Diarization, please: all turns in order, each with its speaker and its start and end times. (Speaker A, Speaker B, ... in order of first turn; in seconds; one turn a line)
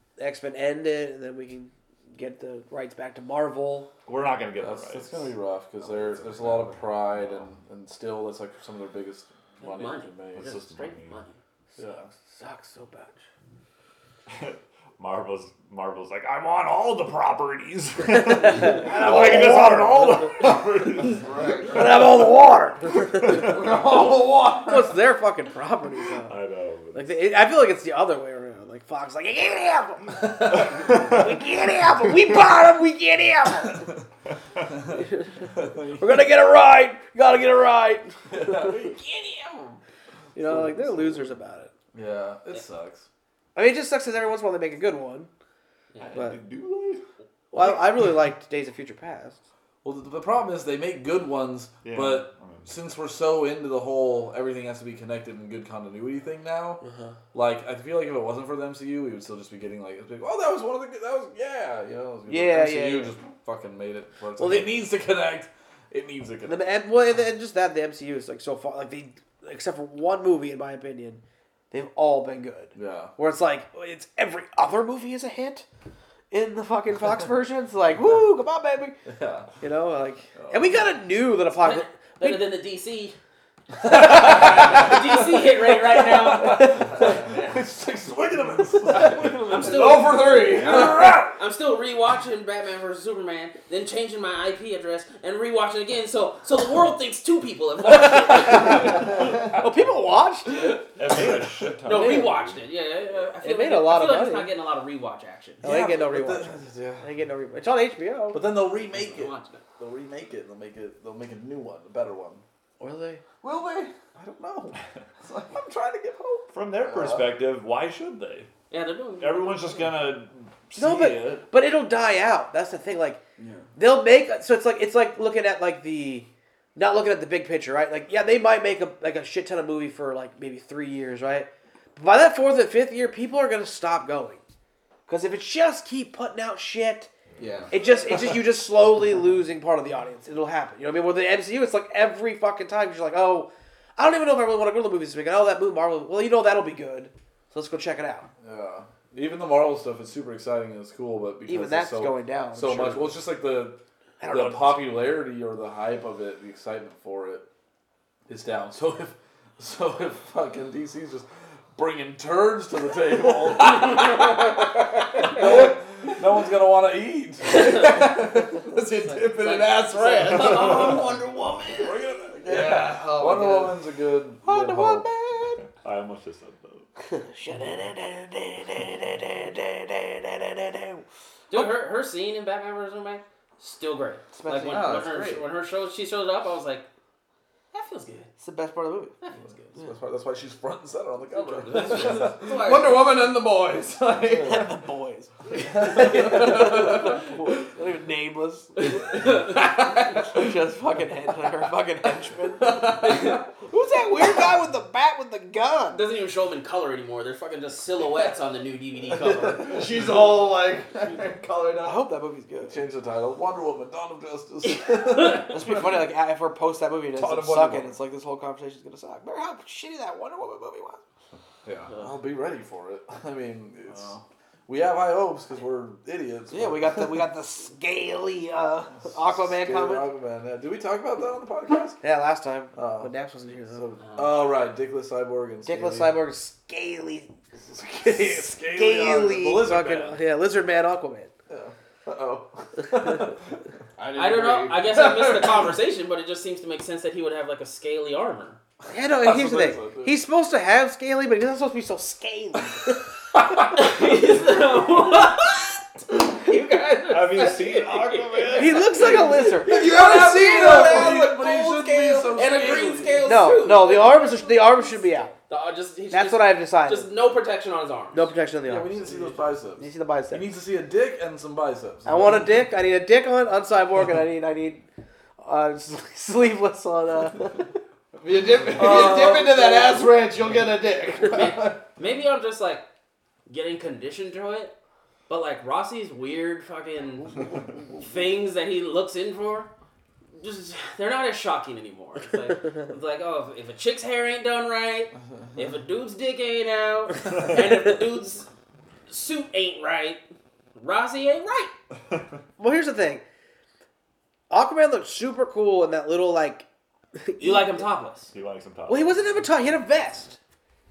Speaker A: 0.2-3.9
Speaker B: 4.0-5.3
Speaker C: 4.6-10.4
Speaker D: 5.8-6.8
Speaker E: 9.6-11.4
Speaker B: 10.3-11.2
Speaker C: 11.8-12.1
Speaker A: 12.3-13.2
Speaker B: 14.3-21.2
Speaker A: 18.1-20.5
Speaker D: 21.1-22.1
Speaker A: 21.7-23.6
Speaker D: 23.2-24.9
Speaker A: 24.6-26.4
Speaker B: 26.2-27.1
Speaker A: 26.9-33.9
Speaker B: 30.5-31.4
Speaker A: 34.9-39.0
Speaker C: 35.5-36.2
Speaker C: 38.3-39.8
Speaker A: 40.3-41.7
Speaker C: 40.4-41.2
Speaker C: 41.9-43.1
Speaker A: 43.5-45.3
Speaker B: 46.0-47.0
Speaker A: 46.1-46.4
Speaker A: 47.5-49.4
Speaker C: 49.8-56.8
Speaker B: 51.8-52.7
Speaker A: 56.8-57.1
Speaker C: 57.3-66.6
Speaker A: 62.3-63.1
Speaker A: 64.4-64.8
Speaker A: 66.5-75.7
Speaker C: 72.7-73.1
Speaker A: 76.3-79.0
Speaker C: 79.1-79.5
Speaker A: 79.6-82.4
Speaker C: 80.3-80.8
Speaker E: 81.6-83.2
Speaker C: 83.8-91.4
Speaker E: 83.8-86.9
Speaker A: 86.6-87.1
Speaker E: 89.2-99.3
Speaker D: 89.5-91.1
Speaker A: 98.3-100.8
Speaker C: 98.7-99.3
Speaker B: 101.0-102.6
Speaker C: 101.1-101.7
Speaker E: 101.8-105.6
Speaker A: 101.9-102.3
Speaker A: 103.4-104.5
Speaker C: 105.6-107.1
Speaker A: 105.6-108.4
Speaker C: 108.3-112.4
Speaker E: 108.9-109.6
Speaker A: 112.8-113.2
Speaker D: 113.4-113.9
Speaker C: 114.1-116.5
Speaker B: 116.5-118.5
Speaker D: 116.8-117.1
Speaker E: 118.7-119.7
Speaker B: 119.2-121.4
Speaker A: 120.8-123.2
Speaker D: 123.4-123.7
Speaker A: 123.8-134.4
Speaker A: 135.1-137.1
Speaker D: 137.4-137.7
Speaker A: 137.7-148.3
Speaker C: 148.4-157.4
Speaker A: 151.5-153.2
Speaker A: 154.2-154.9
Speaker C: 158.3-168.5
Speaker E: 163.8-164.5
Speaker E: 167.5-168.0
Speaker D: 167.6-171.1
Speaker E: 169.2-172.0
Speaker C: 171.8-175.1
Speaker D: 172.4-173.8
Speaker A: 174.4-175.6
Speaker B: 175.6-176.9
Speaker A: 177.0-181.7
Speaker E: 181.5-186.9
Speaker A: 184.3-185.3
Speaker D: 184.7-185.4
Speaker E: 187.7-188.3
Speaker A: 188.4-189.1
Speaker E: 189.2-189.7
Speaker C: 189.7-192.5
Speaker E: 191.3-193.1
Speaker D: 191.7-194.7
Speaker C: 194.3-194.7
Speaker A: 194.3-202.9
Speaker C: 195.6-196.8
Speaker D: 195.8-197.2
Speaker E: 199.1-199.5
Speaker D: 199.3-200.2
Speaker D: 202.6-203.4
Speaker E: 203.0-203.4
Speaker A: 203.6-206.0
Speaker E: 205.9-209.9
Speaker D: 209.4-212.0
Speaker A: 211.8-212.8
Speaker C: 212.7-215.9
Speaker A: 215.4-221.0
Speaker C: 217.2-217.9
Speaker D: 221.6-221.9
Speaker C: 221.9-227.3
Speaker A: 226.5-230.1
Speaker C: 229.0-232.0
Speaker A: 232.0-233.9
Speaker C: 232.7-233.1
Speaker C: 233.7-236.2
Speaker E: 234.0-234.4
Speaker A: 235.7-237.3
Speaker C: 237.6-240.2
Speaker A: 238.0-241.3
Speaker C: 241.5-243.6
Speaker D: 244.0-245.7
Speaker E: 244.2-248.6
Speaker A: 248.9-253.0
Speaker C: 249.2-250.2
Speaker E: 253.7-259.4
Speaker B: 257.1-259.0
Speaker A: 258.5-259.9
Speaker C: 259.4-263.2
Speaker D: 259.6-263.9
Speaker E: 260.1-264.9
Speaker A: 263.2-265.3
Speaker E: 265.5-268.3
Speaker A: 266.1-267.1
Speaker A: 268.1-270.5
Speaker C: 268.6-272.5
Speaker A: 272.1-274.8
Speaker A: 275.4-277.7
Speaker D: 278.2-281.8
Speaker C: 278.7-279.7
Speaker A: 279.0-279.3
Speaker E: 281.2-282.8
Speaker E: 283.5-284.8
Speaker E: 285.3-289.7
Speaker E: 290.4-298.5
Speaker E: 299.1-300.2
Speaker E: 300.7-301.7
Speaker A: 302.6-303.2
Speaker A: 304.5-306.6
Speaker A: 307.2-307.9
Speaker E: 307.4-308.3
Speaker B: 308.3-309.4
Speaker A: 308.9-310.4